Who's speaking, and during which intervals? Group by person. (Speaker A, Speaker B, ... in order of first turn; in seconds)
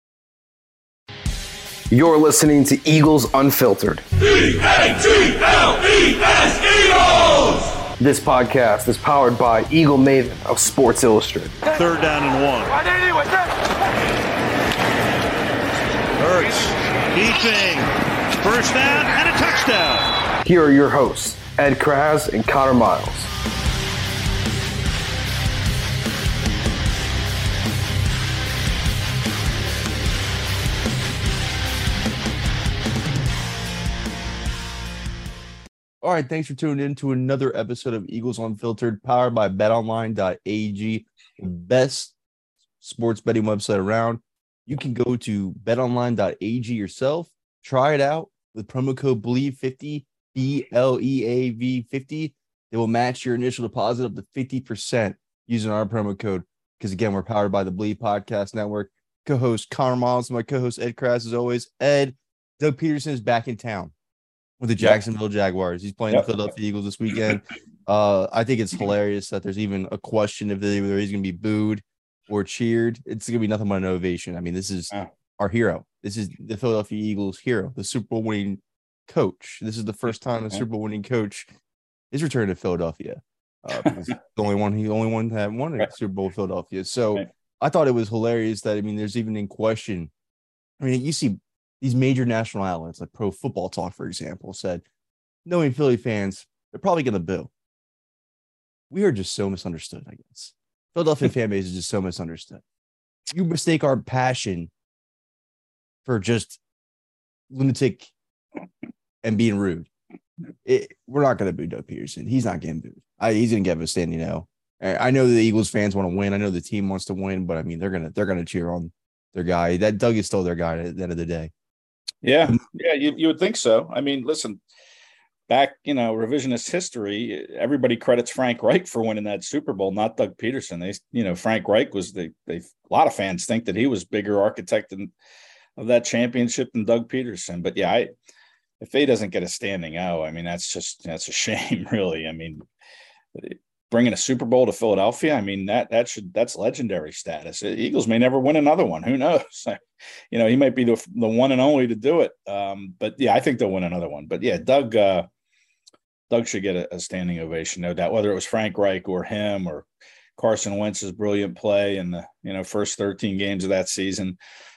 Speaker A: 1.9-4.4, 7.9-11.7, 20.4-23.3
Speaker B: 4.5-7.5
Speaker C: 11.7-12.8, 16.2-20.1
Speaker D: 36.0-42.1, 42.8-63.9, 64.6-81.5, 82.1-90.1, 90.8-94.8, 95.5-97.5, 98.9-102.6, 103.3-104.7, 106.1-106.6, 107.5-108.1, 109.2-109.9, 110.7-121.5
Speaker E: 122.2-124.6, 125.5-135.1, 135.8-138.1, 138.8-142.6, 143.3-149.8, 150.3-155.3, 156.3-164.4